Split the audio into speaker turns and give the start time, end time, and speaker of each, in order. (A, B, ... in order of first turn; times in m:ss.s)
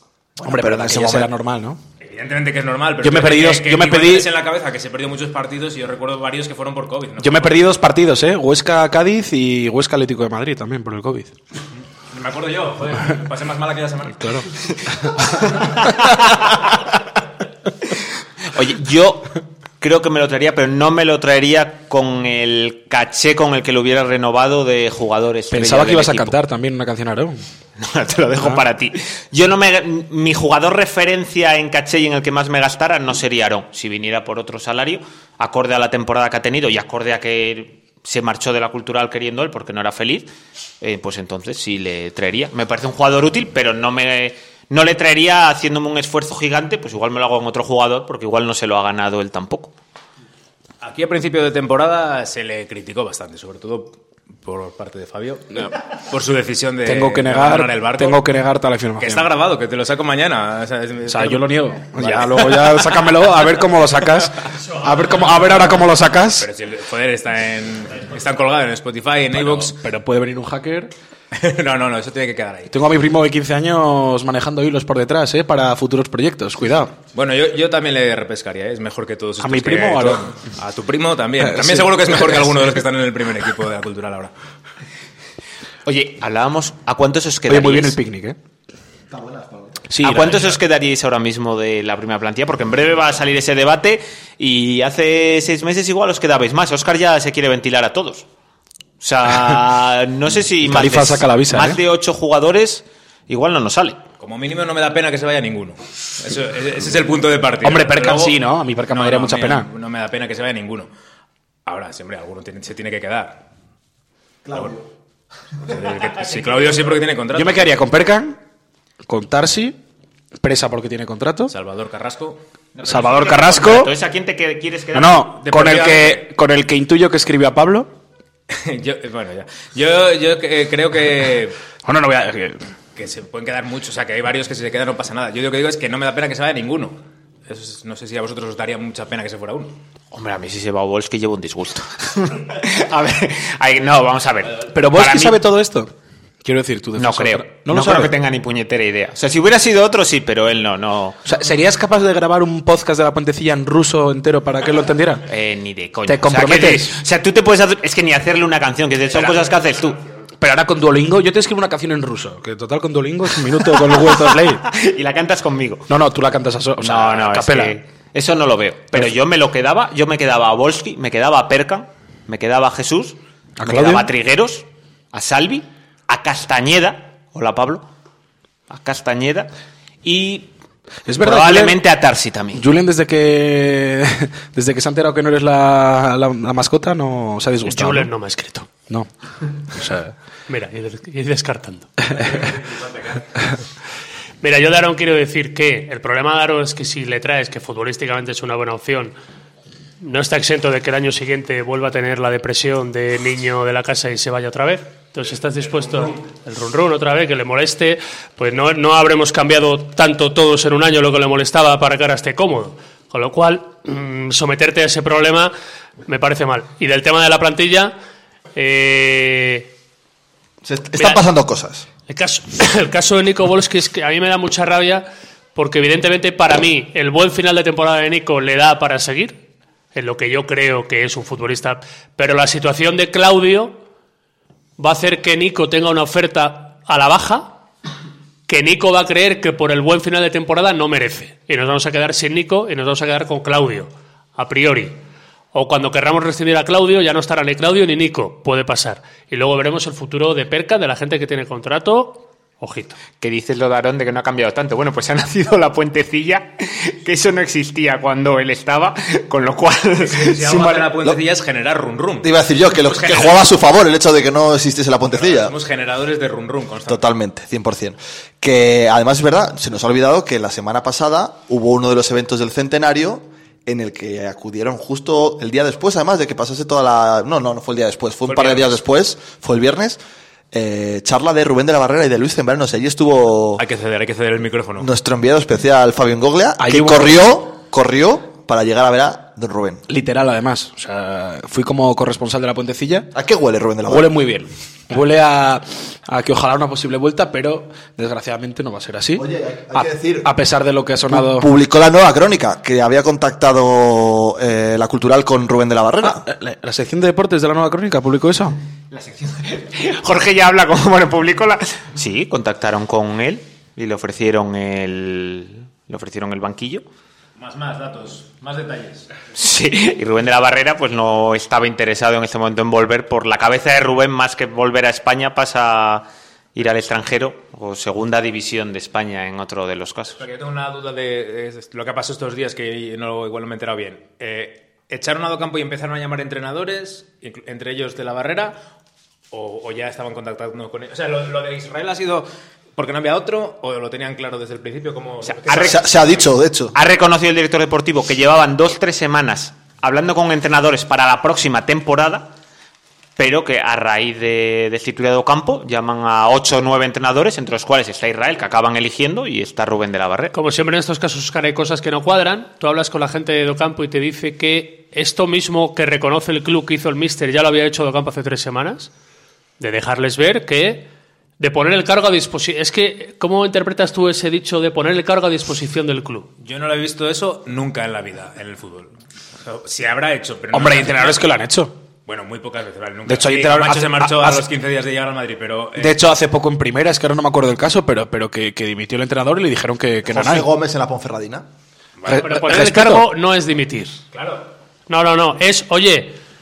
0:00.4-0:01.3 A
0:00.4-0:01.8 B
0:02.0-0:07.6 C
0:03.0-0:04.3 B
0:07.2-0:11.3 B
0:12.1-0:14.5 C
0:14.2-0:14.5 B
0:15.5-0:16.6 D
0:18.5-0:26.3 D
0:25.5-0:27.4 B
0:27.8-0:40.3 D
0:40.8-0:49.7 D
0:50.8-0:58.3 C
0:56.8-0:59.3 B
0:59.0-1:03.3 C
1:01.1-1:06.5 B
1:04.7-1:05.5 E
1:06.3-1:09.8 C
1:09.3-1:10.9 B
1:11.3-1:12.9 C
1:12.7-1:16.9 B
1:17.1-1:24.3 C
1:19.4-1:20.3 B
1:21.4-1:22.4 B
1:25.9-1:28.0 D
1:27.5-1:28.4 B
1:29.1-1:29.8 A
1:29.9-1:30.5 B
1:30.0-1:38.2 D
1:39.0-1:44.0 D
1:40.6-1:41.8 B
1:44.2-1:50.9 C
1:47.6-1:49.7 B
1:51.6-1:53.4 C
1:54.4-1:54.8 A
1:55.7-1:57.8 C
1:56.3-1:56.9 D
1:57.3-1:58.4 B
1:59.0-1:59.8 B
2:00.4-2:01.5 B
2:01.5-2:02.4 C
2:02.7-2:05.3 D
2:02.8-2:03.9 B
2:04.9-2:07.9 B
2:05.3-2:06.3 C
2:08.5-2:11.6 C
2:11.8-2:12.6 B
2:13.0-2:19.8 C
2:20.1-2:25.4 D
2:24.7-2:25.9 B
2:26.4-2:28.1 B
2:27.0-2:31.2 D
2:31.2-2:35.2 B
2:35.3-2:40.0 D
2:36.0-2:36.9 B
2:40.4-2:44.6 B
2:44.1-2:45.9 D
2:45.9-2:47.8 B
2:46.8-2:57.8 D
2:53.6-2:54.1 B
2:58.7-2:59.5 D
3:00.0-3:00.5 D
3:01.0-3:01.8 B
3:01.2-3:02.6 D
3:02.5-3:08.1 B
3:07.6-3:08.7 E
3:09.7-3:10.1 B
3:10.5-3:12.2 E
3:12.7-3:13.2 C
3:14.4-3:19.1 E
3:20.0-3:35.5 E
3:25.8-3:26.1 C
3:36.0-3:37.9 E
3:38.5-3:39.7 E
3:40.6-3:41.9 A
3:40.9-3:41.2 E
3:42.1-3:53.8 E
3:54.8-3:57.6 E
3:58.5-4:05.0 E
4:05.5-4:13.0 E
4:13.2-4:20.8 D
4:20.0-4:22.3 C
4:22.2-4:25.6 A
4:22.8-4:23.5 C
4:25.1-4:27.0 C
4:26.9-4:40.0 A
4:38.2-4:38.8 C
4:40.5-4:43.6 A
4:43.6-4:44.9 C
4:44.8-4:49.8 A
4:46.6-4:47.3 B
4:49.9-4:53.1 B
4:53.1-4:54.2 A
4:53.9-5:01.5 B
4:59.1-5:00.3 A
5:01.1-5:06.2 A
5:06.0-5:08.6 B
5:08.9-5:16.8 D
5:17.4-5:19.1 C
5:19.3-5:30.2 D
5:30.1-5:38.6 C
5:39.3-5:46.3 C
5:45.2-5:45.8 D
5:45.5-5:46.7 A
5:46.7-5:52.3 D
5:53.2-6:00.3 D
6:00.3-6:08.9 E
6:09.6-6:16.3 E
6:16.4-6:21.3 C
6:20.5-6:21.8 B
6:22.0-6:26.0 C
6:23.0-6:24.4 B
6:25.8-6:30.5 B
6:30.1-6:31.5 A
6:32.0-6:32.4 C
6:32.0-6:33.1 B
6:32.1-6:34.0 E
6:34.1-6:34.5 C
6:34.9-6:36.2 E